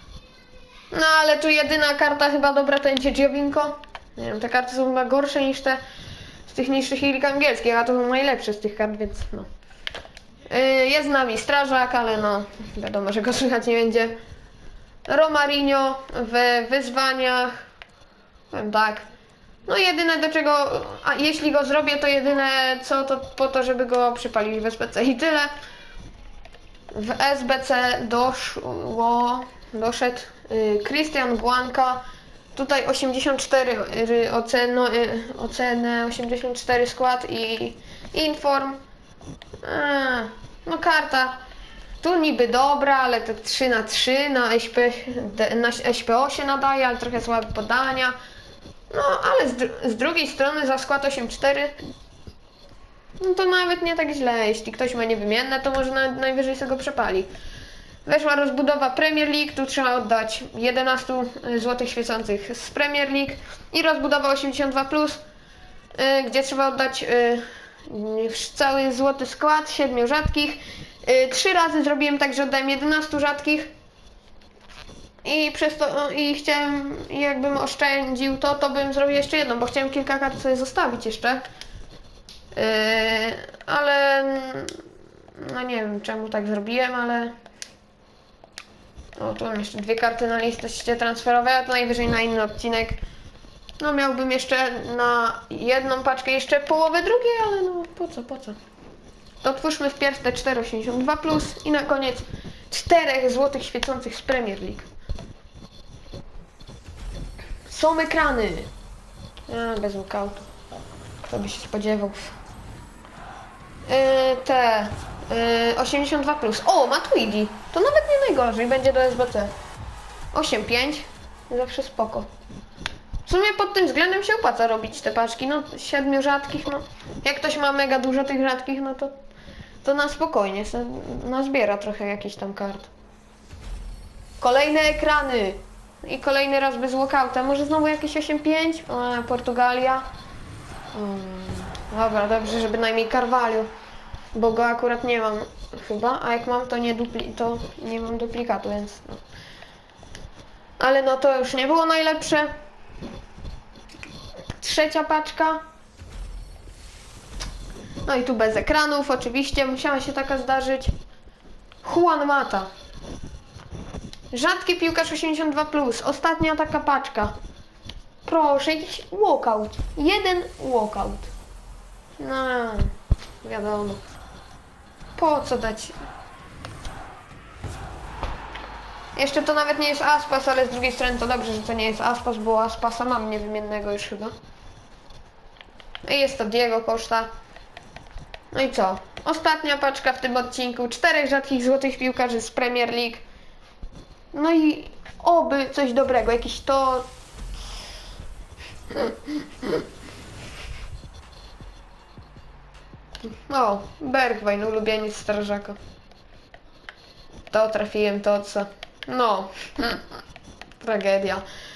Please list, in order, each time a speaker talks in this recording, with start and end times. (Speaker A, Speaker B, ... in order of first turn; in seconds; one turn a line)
Speaker A: 0.9-5.8
Speaker A: 6.5-9.5
Speaker A: 10.5-14.2
Speaker A: 15.1-17.6
Speaker A: 18.5-19.1
Speaker A: 19.7-25.5
Speaker A: 26.9-32.0
Speaker A: 32.5-38.8
Speaker A: 39.6-41.4
Speaker A: 42.0-48.2
Speaker A: 48.9-51.8
Speaker A: 53.2-57.3
Speaker A: 58.1-65.2
Speaker A: 66.0-73.7
Speaker A: 75.2-81.4
Speaker A: 82.5-84.8
Speaker A: 85.4-87.3
Speaker A: 89.2-93.0
Speaker A: 93.8-98.6
Speaker A: 99.4-104.9
Speaker A: 107.7-108.7
Speaker A: 109.5-110.5
Speaker A: 111.2-112.3
Speaker A: 113.9-119.5
Speaker A: 120.3-122.3
Speaker A: 123.3-129.2
Speaker A: 129.8-132.9
Speaker A: 134.4-140.1
Speaker A: 140.9-143.7
Speaker A: 144.3-149.2
Speaker A: 150.8-152.5
Speaker A: 154.6-155.6
Speaker A: 158.1-160.9
Speaker A: 161.8-162.7
Speaker A: 164.3-167.3
Speaker A: 168.2-171.3
Speaker A: 172.2-174.0
Speaker A: 175.2-176.0
Speaker A: 179.2-184.3
Speaker A: 186.0-187.3
Speaker A: 188.5-193.2
Speaker A: 194.3-197.1
Speaker A: 198.9-199.8
Speaker A: 203.4-205.8
Speaker A: 207.5-210.1
Speaker A: 210.8-211.4